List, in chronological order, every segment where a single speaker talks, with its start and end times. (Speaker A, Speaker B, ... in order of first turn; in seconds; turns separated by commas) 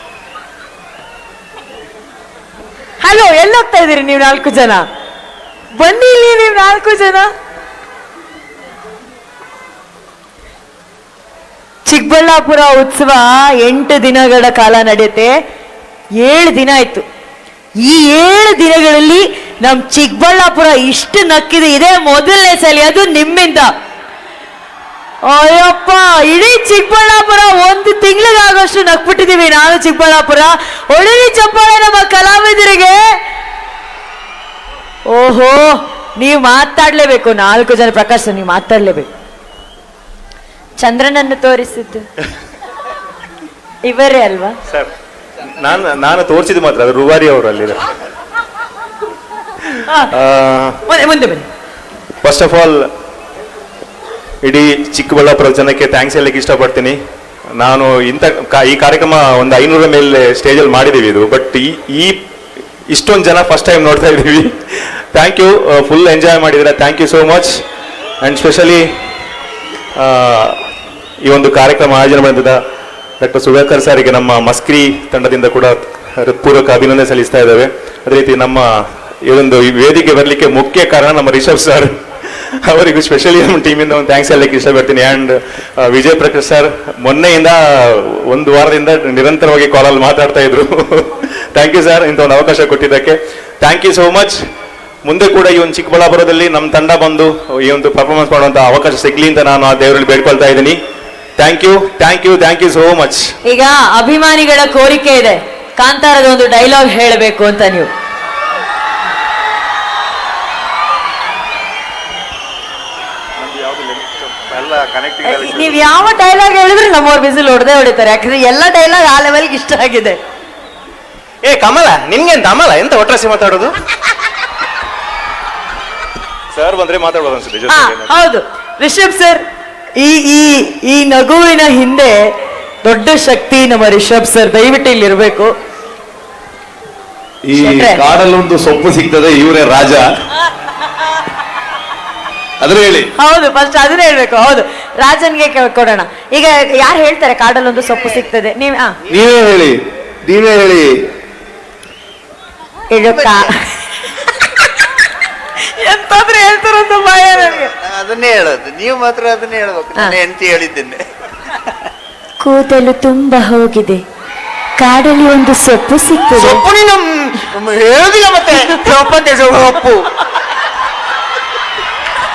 Speaker A: 3.0-4.8, Speaker A: 5.7-7.3, Speaker A: 11.8-15.3, Speaker A: 16.2-17.0, Speaker A: 17.8-23.7, Speaker A: 25.3-33.0, Speaker A: 35.1-39.1, Speaker A: 40.8-42.1, Speaker A: 43.8-44.6, Speaker B: 45.6-47.8, Speaker B: 50.1-50.8, Speaker A: 50.9-51.5, Speaker B: 52.2-52.9, Speaker B: 54.4-57.0, Speaker B: 57.6-62.2, Speaker B: 62.9-67.6, Speaker B: 68.2-68.8, Speaker B: 70.0-70.6, Speaker B: 71.2-72.6, Speaker B: 73.2-81.9, Speaker B: 82.6-94.4, Speaker B: 95.0-100.8, Speaker B: 101.4-103.3, Speaker A: 103.4-107.9, Speaker C: 113.4-115.8, Speaker A: 115.2-120.2, Speaker B: 121.4-123.8, Speaker B: 126.5-128.1, Speaker A: 127.7-129.4, Speaker A: 130.0-132.3, Speaker A: 132.8-135.5, Speaker D: 137.4-140.0, Speaker A: 137.5-138.0, Speaker D: 142.6-143.1, Speaker A: 143.2-149.0, Speaker D: 149.1-150.9, Speaker A: 152.9-153.7, Speaker C: 153.1-153.4, Speaker A: 154.2-154.7, Speaker A: 155.6-157.7, Speaker C: 157.5-161.0, Speaker A: 162.4-164.0, Speaker A: 164.8-166.6, Speaker B: 166.5-167.1, Speaker C: 167.3-170.1